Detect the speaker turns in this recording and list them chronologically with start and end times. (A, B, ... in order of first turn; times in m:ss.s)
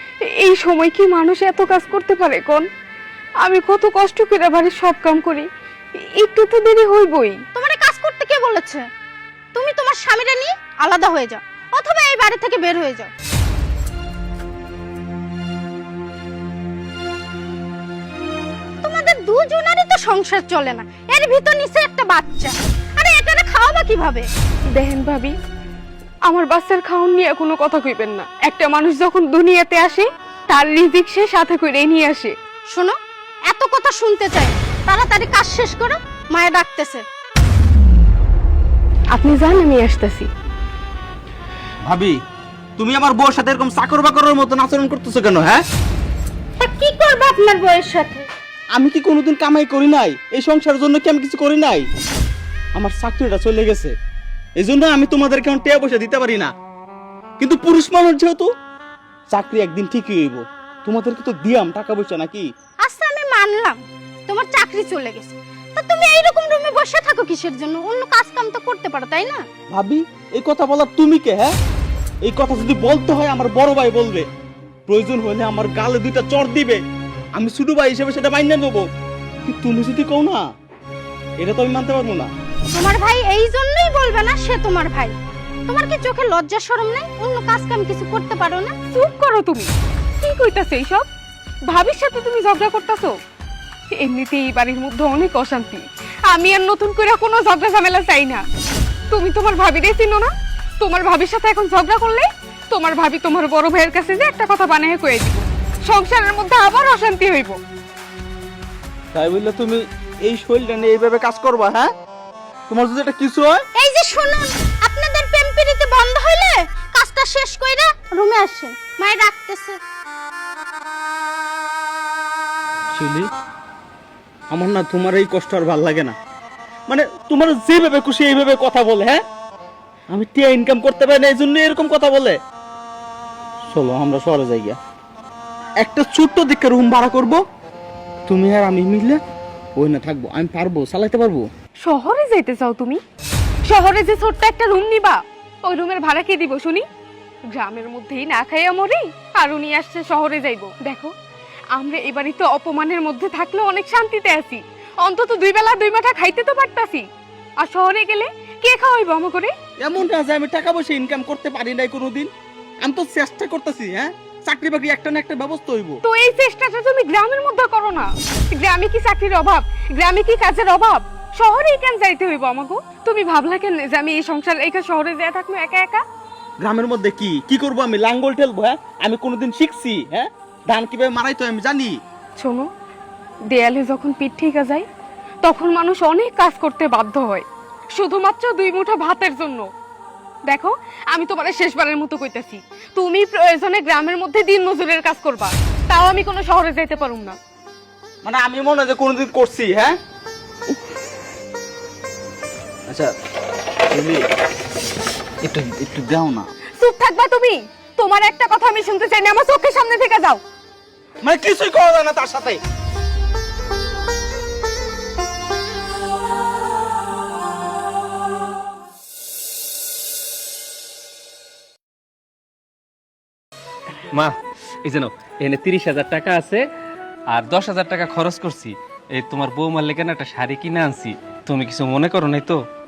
0:00.4-0:02.6 A
0:03.4-0:05.5 A
0:06.2-0:07.4 A
0:07.6-0:08.8 B
0:09.6-0:13.1 B
0:18.8-0:24.3 B
0:24.7-0:25.4 A
0:26.3-0:32.3 A
0:32.7-0:37.0 B
0:39.1-0:40.3 A
0:41.8-0:42.2 C
0:42.8-0:45.6 C
0:46.6-0:48.3 B
0:48.7-0:51.9 C
0:52.8-0:53.9 C
0:54.6-0:56.5 C
0:57.4-0:58.5 C
0:59.3-1:02.5 C
1:02.8-1:09.4 B
1:09.7-1:11.5 C
1:12.2-1:14.3 C
1:14.9-1:16.8 C
1:17.3-1:18.9 C
1:19.4-1:20.4 C
1:21.4-1:22.3 C
1:22.7-1:25.2 B
1:25.7-1:28.7 B
1:28.9-1:31.1 A
1:31.7-1:33.2 A
1:33.9-1:38.4 A
1:39.1-1:47.6 A
1:49.2-1:51.9 C
1:52.7-1:53.6 C
1:53.8-1:59.8 B
2:02.9-2:03.3 C
2:04.5-2:06.2 C
2:06.9-2:09.2 C
2:10.1-2:12.4 C
2:13.7-2:14.8 C
2:15.8-2:17.4 C
2:18.3-2:19.2 C
2:19.8-2:21.5 C
2:21.8-2:23.0 A
2:23.7-2:26.8 A
2:27.6-2:31.1 A
2:31.7-2:37.0 A
2:37.6-2:39.5 A
2:39.8-2:42.3 C
2:42.8-2:46.0 C
2:46.0-2:56.0 A
2:56.6-3:02.0 C
3:02.4-3:02.7 A
3:03.5-3:04.9 A
3:05.4-3:09.7 A
3:10.5-3:17.4 A
3:18.2-3:20.0 C
3:23.9-3:24.2 C
3:25.4-3:26.5 C
3:26.8-3:30.4 A
3:31.2-3:32.6 C
3:44.8-3:46.7 D
3:47.3-3:52.6 D